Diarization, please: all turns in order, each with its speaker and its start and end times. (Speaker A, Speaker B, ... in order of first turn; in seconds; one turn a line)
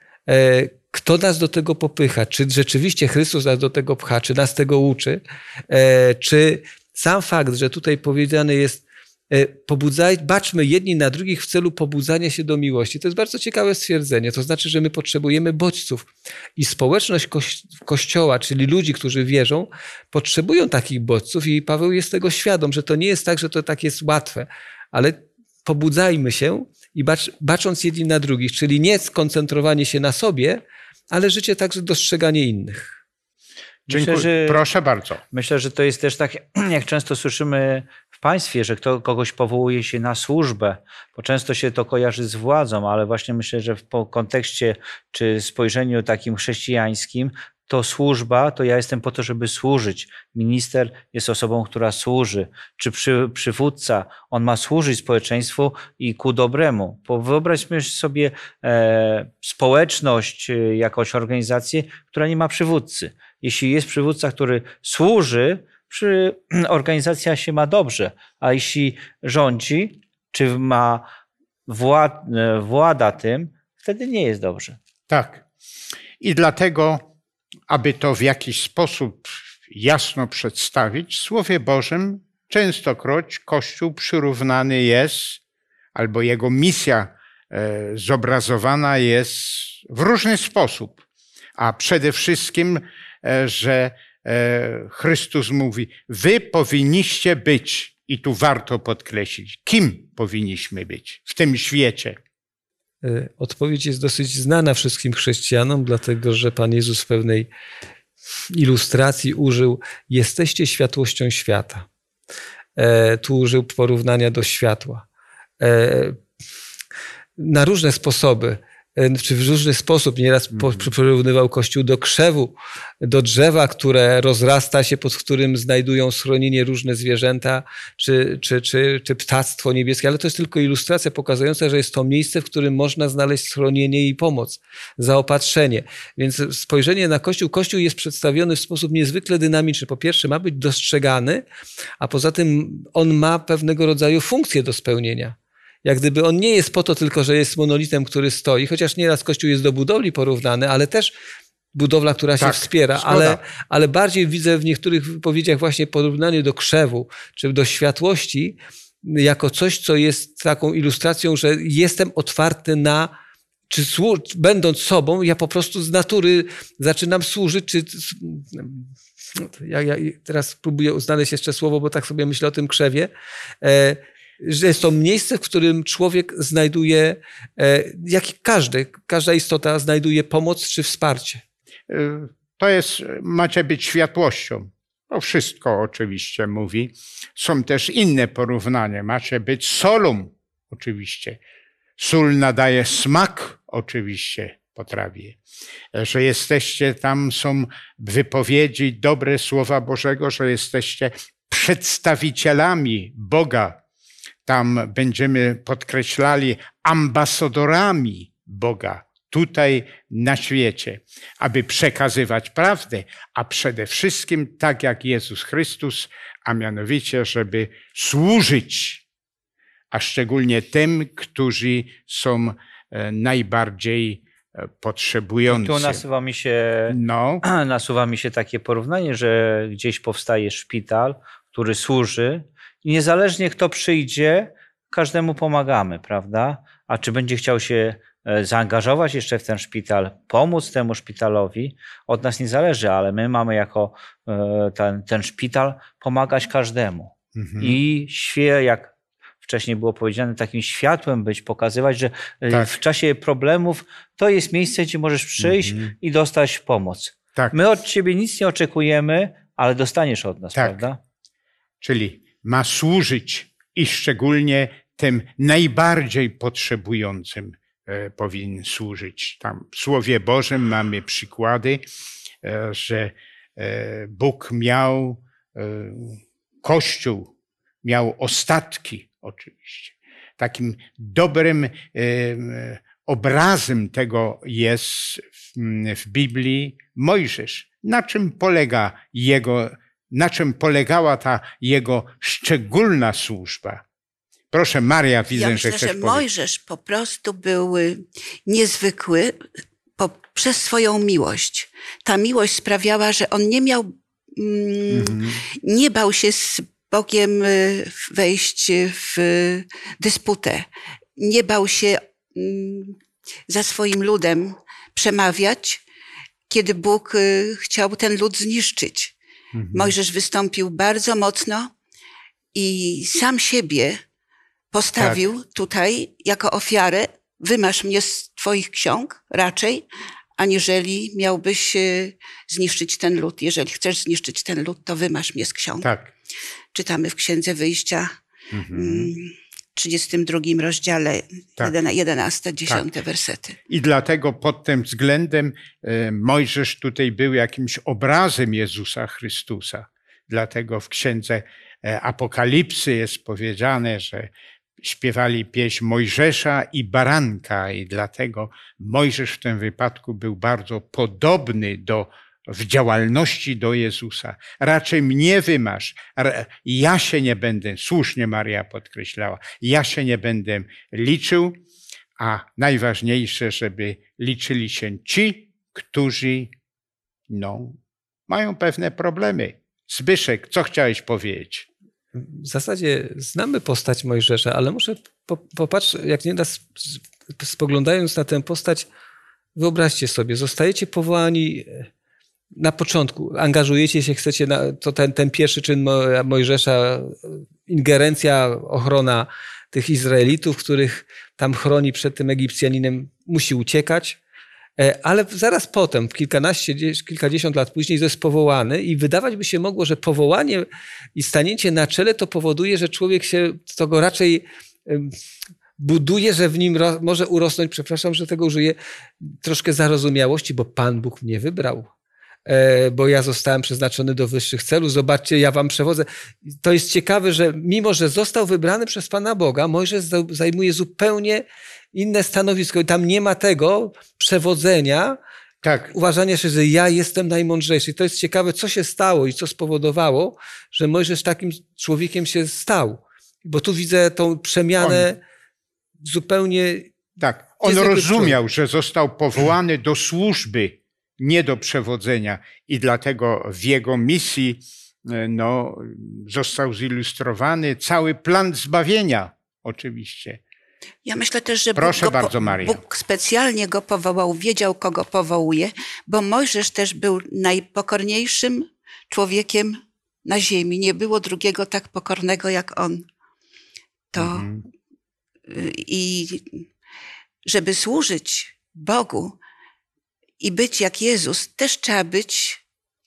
Speaker A: 0.3-33.0
Speaker B: 33.9-34.6
Speaker C: 33.9-35.2
Speaker B: 35.3-71.0
Speaker B: 71.7-74.8
Speaker C: 75.1-75.4
Speaker C: 76.2-77.0
Speaker C: 77.7-85.4
Speaker C: 85.9-91.0
Speaker C: 91.6-102.2
Speaker A: 103.0-107.5
Speaker A: 108.5-111.8
Speaker A: 112.8-115.0
Speaker A: 115.6-116.2
Speaker A: 117.4-141.4
Speaker C: 120.5-120.9
Speaker A: 142.0-151.1
Speaker A: 151.7-163.1
Speaker C: 152.4-153.4
Speaker A: 163.7-173.1
Speaker A: 173.6-181.4
Speaker C: 181.9-191.4
Speaker C: 192.0-195.4
Speaker C: 195.9-203.8
Speaker C: 204.4-219.0
Speaker C: 219.9-226.0
Speaker B: 225.5-248.9
Speaker C: 226.9-227.4
Speaker C: 247.3-247.8
Speaker B: 249.4-261.0
Speaker C: 255.4-255.9
Speaker C: 260.5-260.8
Speaker C: 261.8-271.8
Speaker C: 272.4-277.3
Speaker C: 277.8-293.8
Speaker C: 294.5-296.2
Speaker D: 295.3-299.4
Speaker D: 300.0-313.0
Speaker C: 304.9-305.4
Speaker D: 313.5-315.8
Speaker D: 316.5-319.1
Speaker C: 319.5-319.9
Speaker D: 319.7-321.7
Speaker D: 322.5-324.0
Speaker D: 324.7-329.8
Speaker D: 330.4-335.9
Speaker C: 335.8-336.1
Speaker D: 336.7-338.1
Speaker C: 338.5-339.1
Speaker D: 338.7-343.6
Speaker C: 343.7-371.6
Speaker C: 372.2-376.5
Speaker C: 377.3-377.8
Speaker C: 378.3-381.6
Speaker A: 382.1-388.9
Speaker A: 389.6-391.9
Speaker A: 392.6-404.2
Speaker A: 404.8-415.1
Speaker A: 415.8-421.9
Speaker A: 422.4-435.2
Speaker C: 435.6-435.9
Speaker A: 435.9-445.2
Speaker C: 444.8-445.1
Speaker A: 446.0-446.9
Speaker C: 447.2-460.4
Speaker A: 447.6-448.4
Speaker D: 461.0-473.0
Speaker C: 461.8-462.8
Speaker D: 474.1-474.5
Speaker C: 474.1-474.6
Speaker D: 475.5-476.5
Speaker D: 477.4-479.4
Speaker D: 480.4-482.6